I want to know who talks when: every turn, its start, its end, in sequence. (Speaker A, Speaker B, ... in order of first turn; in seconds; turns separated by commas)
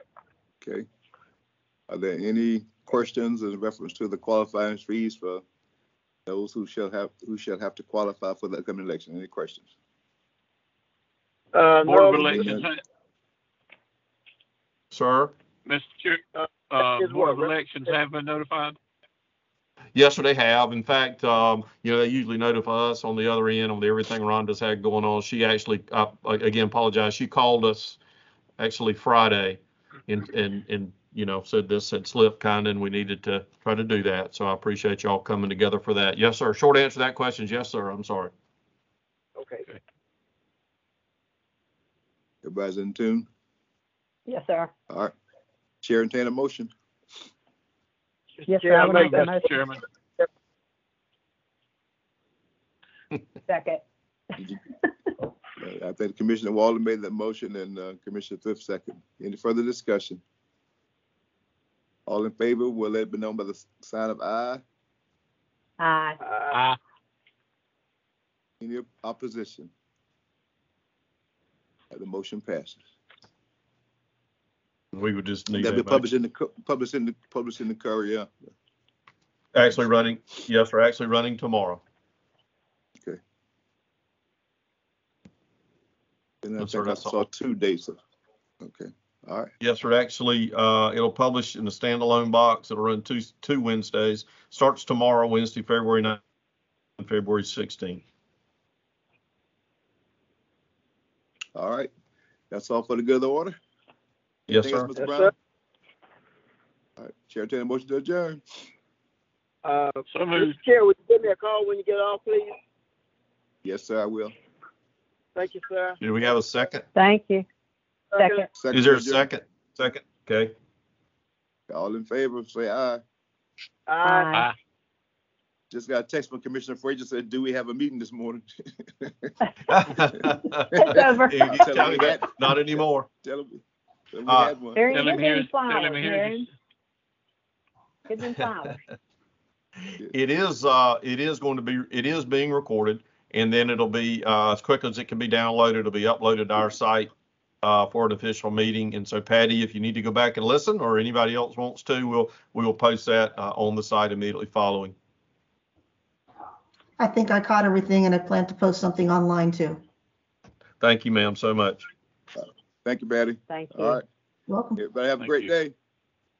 Speaker A: 1.9-5.4, Speaker A: 6.3-9.7, Speaker B: 11.5-12.6, Speaker C: 11.8-12.8, Speaker A: 12.3-12.6, Speaker D: 14.9-15.3, Speaker C: 15.7-18.8, Speaker B: 16.4-18.0, Speaker D: 19.9-28.0, Speaker D: 28.6-38.3, Speaker B: 39.4-39.7, Speaker A: 42.4-43.3, Speaker E: 44.3-44.7, Speaker A: 45.8-46.7, Speaker B: 48.4-49.4, Speaker E: 48.5-49.6, Speaker C: 48.9-49.8, Speaker E: 53.5-53.8, Speaker A: 55.6-60.2, Speaker A: 62.1-64.6, Speaker E: 65.8-66.2, Speaker B: 66.2-66.6, Speaker C: 66.5-66.8, Speaker A: 68.6-69.7, Speaker A: 71.9-72.8, Speaker D: 74.9-76.1, Speaker A: 75.5-78.3, Speaker D: 79.5-81.8, Speaker A: 86.4-88.0, Speaker D: 86.6-87.2, Speaker A: 88.6-89.5, Speaker D: 89.6-96.2, Speaker D: 97.0-98.0, Speaker A: 101.5-101.9, Speaker A: 102.5-103.5, Speaker A: 104.5-105.3, Speaker D: 104.5-104.9, Speaker B: 105.0-105.3, Speaker A: 107.0-108.4, Speaker B: 109.7-112.5, Speaker C: 110.1-110.6, Speaker A: 113.6-114.3, Speaker B: 115.4-116.0, Speaker D: 116.0-116.8, Speaker E: 117.0-117.5, Speaker B: 118.1-118.5, Speaker E: 118.2-118.5, Speaker A: 118.6-119.3, Speaker D: 118.7-120.5, Speaker A: 121.7-123.0, Speaker B: 123.9-124.4, Speaker E: 124.0-124.5, Speaker A: 125.7-129.3, Speaker D: 129.7-133.1, Speaker E: 130.7-131.6, Speaker A: 130.9-135.1, Speaker D: 134.3-134.5, Speaker E: 134.8-136.5, Speaker C: 134.9-136.4, Speaker E: 138.1-138.8, Speaker D: 139.9-147.1, Speaker D: 147.6-154.9, Speaker F: 157.0-159.8, Speaker D: 160.8-161.9, Speaker A: 162.4-164.1, Speaker E: 163.5-164.0, Speaker F: 164.5-164.8, Speaker A: 164.8-165.7, Speaker C: 165.2-165.5